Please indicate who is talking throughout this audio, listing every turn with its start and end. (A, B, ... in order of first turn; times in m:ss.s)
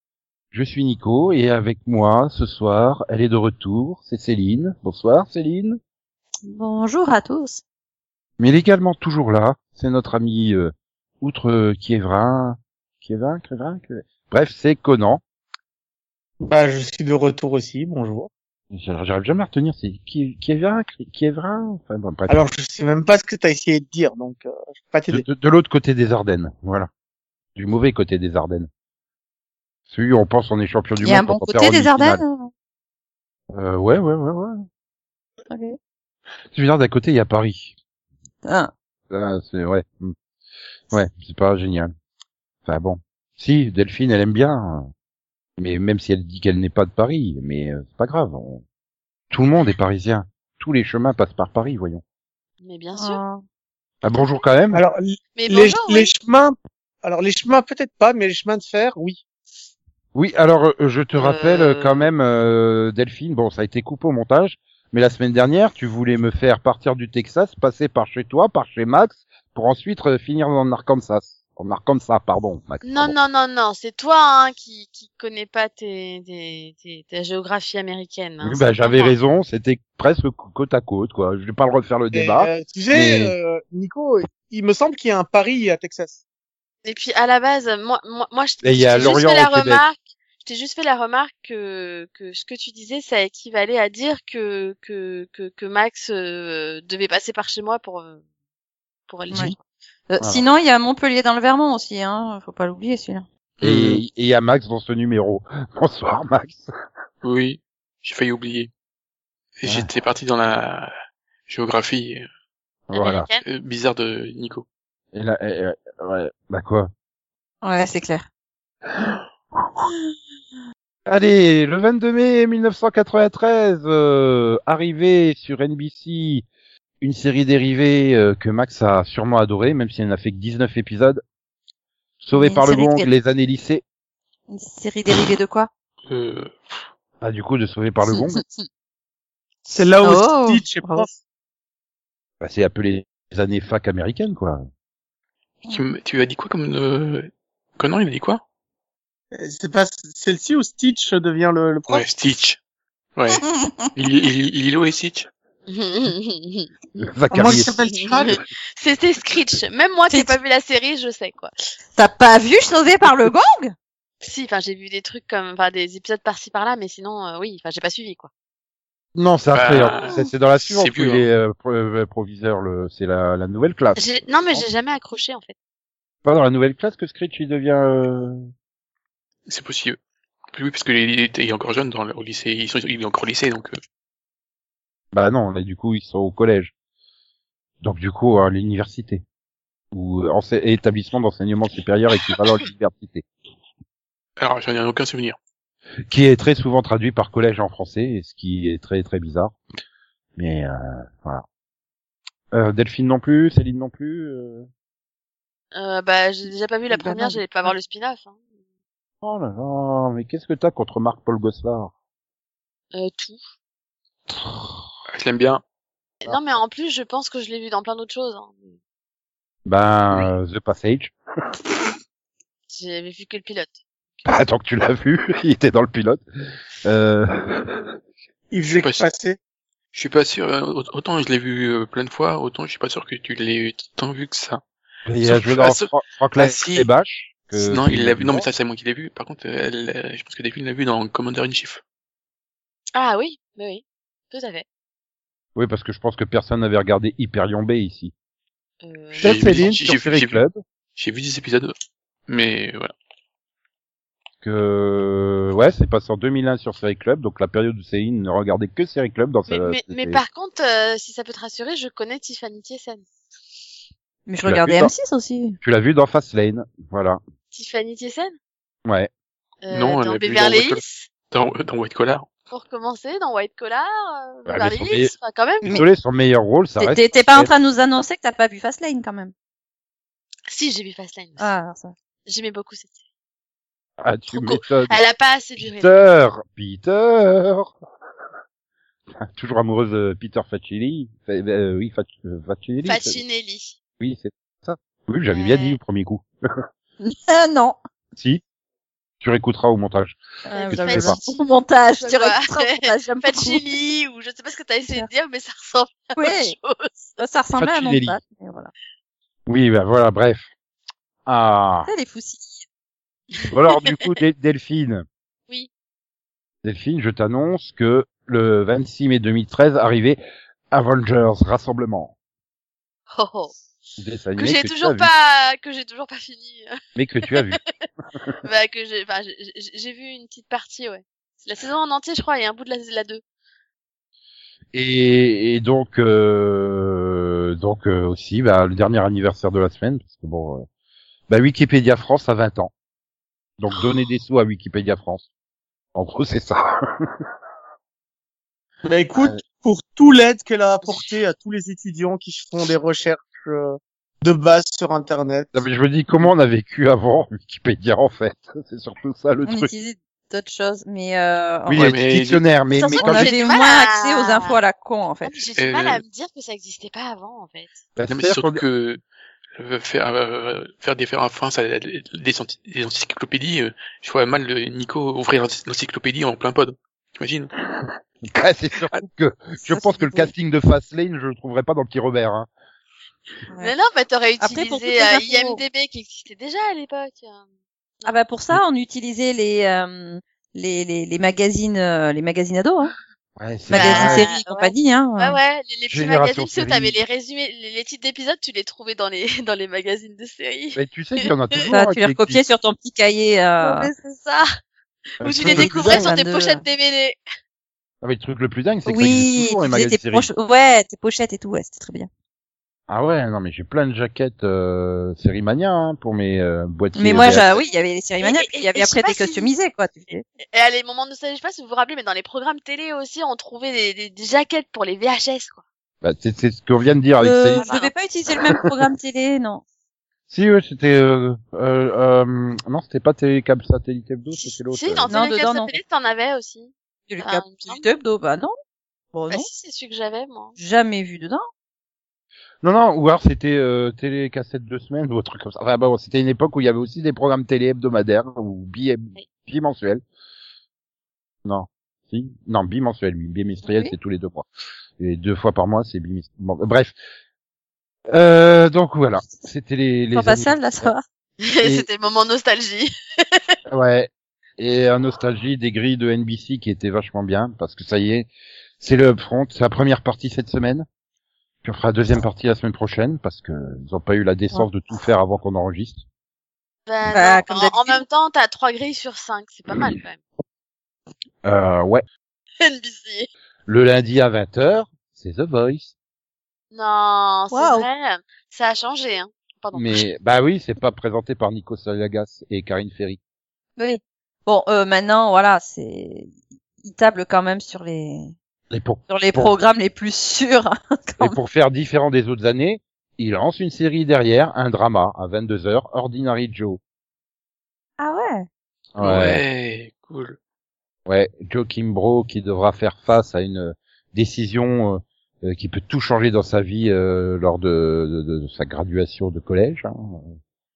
0:00.5-0:05.8 A
0:06.4-0:07.6 B
0:08.4-0:15.2 A
0:16.4-0:18.3 C
0:18.7-0:22.4 A
0:22.3-0:25.2 C
0:25.1-0:26.9 A
0:27.6-0:28.7 A
0:29.9-0:32.2 A
0:31.0-0:32.5 B
0:33.5-0:34.6 A
0:35.5-0:35.8 B
0:36.5-0:37.7 A
0:38.4-0:38.7 B
0:39.1-0:40.1 A
0:40.9-0:41.9 A
0:42.6-0:44.9 A
0:45.6-0:48.6 A
0:49.3-0:52.0 A
0:52.6-0:53.2 D
0:52.9-0:53.4 B
0:54.0-0:54.8 A
0:54.7-0:59.2 C
0:55.3-0:56.1 D
1:00.1-1:13.2 A
1:01.2-1:02.1 D
1:12.8-1:19.1 D
1:18.4-1:23.3 A
1:22.1-1:26.2 C
1:26.8-1:38.2 D
1:28.6-1:29.8 A
1:39.1-1:39.5 D
1:40.1-1:43.2 B
1:43.6-1:44.0 E
1:43.6-1:46.7 A
1:47.2-1:48.7 E
1:49.6-1:50.9 E
1:51.5-1:52.3 E
1:52.9-1:53.3 A
1:52.9-1:53.4 D
1:53.4-1:54.6 E
1:55.1-1:56.9 A
1:57.6-1:58.2 B
2:01.1-2:06.4 A
2:07.0-2:11.2 A
2:12.2-2:13.8 A
2:12.3-2:13.1 B
2:14.5-2:15.7 B
2:16.1-2:16.8 E
2:17.2-2:18.4 A
2:18.1-2:18.6 B
2:19.7-2:21.1 B
2:19.7-2:21.2 C
2:22.4-2:24.7 A
2:25.7-2:28.4 E
2:29.3-2:32.1 C
2:31.9-2:32.6 E
2:33.2-2:33.4 E
2:33.3-2:33.9 B
2:33.9-2:35.3 E
2:35.7-2:36.7 D
2:37.0-2:37.7 A
2:37.3-2:38.4 C
2:37.8-2:41.5 D
2:40.1-2:40.4 B
2:42.0-2:43.7 B
2:44.2-2:48.3 D
2:49.1-2:54.6 A
2:49.5-2:51.3 E
2:53.9-2:55.5 D
2:56.2-2:58.5 A
2:59.5-3:00.0 E
3:00.5-3:03.8 E
3:05.1-3:06.7 A
3:07.8-3:09.2 A
3:09.9-3:13.2 A
3:14.4-3:15.4 E
3:16.1-3:19.6 A
3:20.4-3:21.4 A
3:22.5-3:24.7 A
3:25.7-3:28.4 D
3:26.9-3:27.7 B
3:29.2-3:31.9 A
3:32.9-3:33.4 D
3:34.3-3:34.8 A
3:35.1-3:35.6 E
3:36.2-3:38.7 D
3:36.2-3:36.6 A
3:39.6-3:41.1 A
3:42.7-3:43.8 D
3:44.2-3:46.2 A
3:46.8-3:47.9 A
3:48.5-3:49.4 C
3:48.6-3:49.1 E
3:49.9-3:54.6 E
3:55.1-3:58.5 A
3:55.2-3:56.9 E
3:57.5-4:01.8 E
4:02.9-4:04.6 D
4:05.5-4:08.1 A
4:08.8-4:09.6 D
4:09.1-4:10.4 E
4:09.2-4:10.6 A
4:11.0-4:11.7 E
4:12.3-4:12.9 E
4:14.4-4:20.2 A
4:19.5-4:23.0 D
4:24.3-4:25.6 B
4:24.4-4:24.9 A
4:25.6-4:27.2 A
4:27.5-4:28.3 D
4:29.6-4:31.1 D
4:29.7-4:32.3 E
4:32.5-4:35.8 D
4:34.4-4:35.1 A
4:35.7-4:37.5 A
4:36.8-4:39.3 B
4:40.5-4:41.5 D
4:41.4-4:41.9 B
4:42.2-4:43.0 D
4:44.0-4:45.0 A
4:44.3-4:46.1 D
4:45.6-4:47.7 A
4:49.2-4:53.2 A
4:52.8-4:53.8 D
4:54.0-4:56.6 A
4:55.3-4:55.8 D
4:57.0-4:57.8 B
4:58.2-4:58.4 A
4:59.2-5:00.2 A
5:00.5-5:03.6 B
5:00.5-5:07.2 D
5:00.7-5:01.2 A
5:06.2-5:06.6 B
5:07.2-5:08.7 B
5:07.6-5:08.2 A
5:09.5-5:10.5 A
5:11.2-5:11.9 A
5:11.9-5:12.6 B
5:13.3-5:14.0 D
5:13.5-5:15.0 A
5:16.6-5:20.2 A
5:20.7-5:22.1 A
5:23.1-5:23.5 D
5:24.0-5:25.1 A
5:24.4-5:26.7 D
5:27.0-5:27.6 A
5:27.3-5:27.8 D
5:28.4-5:33.2 D
5:34.7-5:40.6 A
5:41.3-5:42.7 A
5:43.6-5:45.2 A
5:45.9-5:47.2 A
5:48.8-5:55.5 C
5:55.5-5:59.7 A
5:59.4-6:01.9 B
6:01.7-6:03.3 A
6:01.8-6:02.4 E
6:02.7-6:04.6 D
6:03.0-6:05.4 B
6:05.2-6:07.8 D
6:05.6-6:06.0 E
6:08.0-6:08.6 A
6:08.1-6:09.0 E
6:09.6-6:17.5 E
6:18.3-6:22.5 A
6:19.7-6:20.3 B
6:23.6-6:27.4 D
6:24.4-6:25.6 B
6:28.0-6:32.9 B
6:33.4-6:34.3 A
6:33.7-6:35.4 B
6:33.7-6:41.7 D
6:35.9-6:37.0 A
6:40.7-6:42.4 A
6:41.7-6:43.9 B
6:43.6-6:44.5 D
6:45.2-6:46.2 A
6:45.2-6:47.2 D
6:45.4-6:46.6 B
6:48.0-6:50.3 A
6:48.8-6:52.1 B
6:52.9-6:57.5 A
6:57.0-7:00.2 B
6:57.1-6:59.5 D
7:00.5-7:05.6 D
7:06.0-7:07.7 A
7:07.2-7:09.6 B
7:07.5-7:07.9 D
7:10.3-7:15.1 A
7:14.3-7:17.9 D
7:15.1-7:15.8 B
7:17.1-7:18.5 B
7:19.1-7:19.4 B
7:19.3-7:20.6 D
7:20.6-7:21.4 B
7:22.6-7:30.0 A
7:31.4-7:34.5 A
7:33.6-7:33.9 B
7:35.0-7:36.9 A
7:38.1-7:40.9 A
7:40.1-7:41.0 B
7:41.4-7:43.4 D
7:41.6-7:41.9 A
7:43.7-7:48.3 A
7:48.8-7:50.9 A
7:51.6-7:56.0 A
7:56.9-8:00.2 D
7:57.0-7:58.0 B
8:01.4-8:02.0 A
8:02.6-8:03.3 D
8:03.7-8:05.9 A
8:06.7-8:10.0 D
8:07.5-8:07.8 B
8:09.7-8:13.2 A
8:13.8-8:16.3 B
8:16.8-8:18.3 B
8:18.7-8:19.5 A
8:19.1-8:21.4 B
8:21.2-8:26.8 A
8:28.0-8:28.5 B
8:28.9-8:29.4 A
8:29.0-8:30.4 E
8:31.0-8:40.4 A